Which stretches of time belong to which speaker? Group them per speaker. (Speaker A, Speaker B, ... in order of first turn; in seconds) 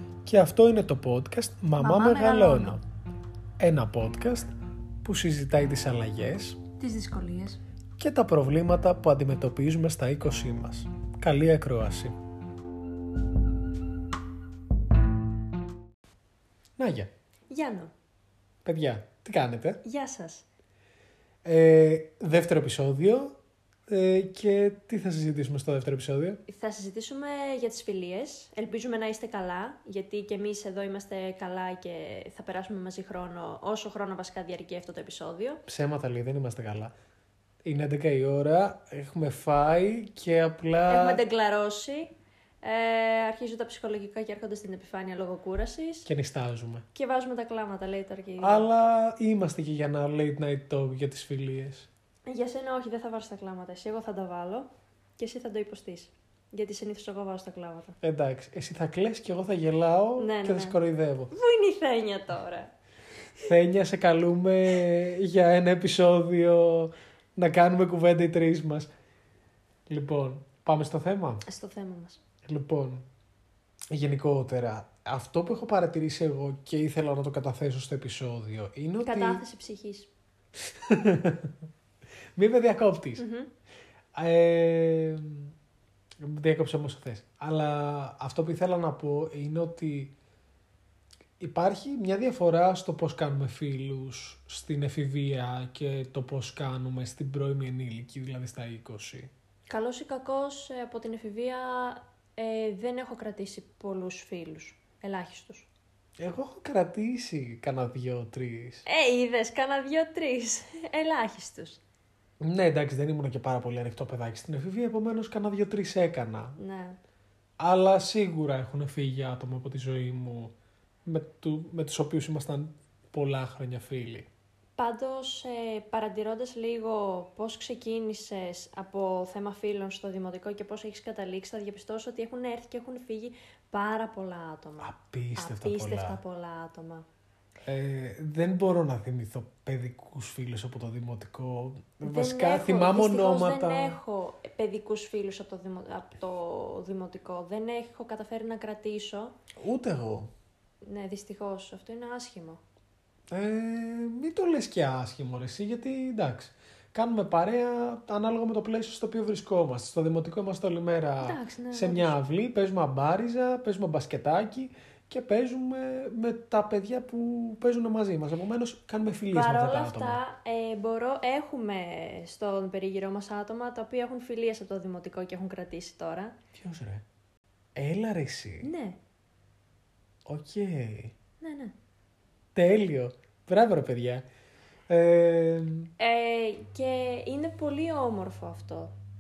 Speaker A: 0.3-2.8, 3.6-4.5, 5.0-6.6, 8.0-12.2, 16.8-17.1, 18.6-19.8, 21.4-23.4, 23.9-26.4, 35.7-36.9, 37.6-41.2, 46.1-46.9, 48.4-51.9, 58.0-61.3, 63.4-68.9, 69.9-71.4, 72.5-73.0, 73.9-79.4, 80.6-81.5, 82.4-83.2, 84.2-85.5, 86.2-90.1, 91.4-99.3, 106.2-108.8, 112.4-116.6, 117.6-120.5, 121.1-124.3, 134.8-136.2, 137.7-144.0, 149.6-150.3, 153.3-170.2, 176.5-177.0, 177.8-178.7, 180.3-181.1, 182.6-184.3, 184.9-185.9
Speaker B: 1.8-2.8, 6.8-7.6, 17.5-17.9, 19.8-20.5, 26.5-35.6, 40.9-42.1, 42.6-46.1, 46.9-48.7, 52.3-58.0, 60.2-60.8, 61.3-62.7, 71.5-72.2, 79.0-80.1, 83.2-83.5, 99.7-105.7, 108.9-111.8, 116.6-117.0, 124.8-137.1, 142.0-149.3, 150.8-152.6, 161.2-162.2, 169.3-176.4, 178.6-179.0, 181.4-181.7, 186.0-188.9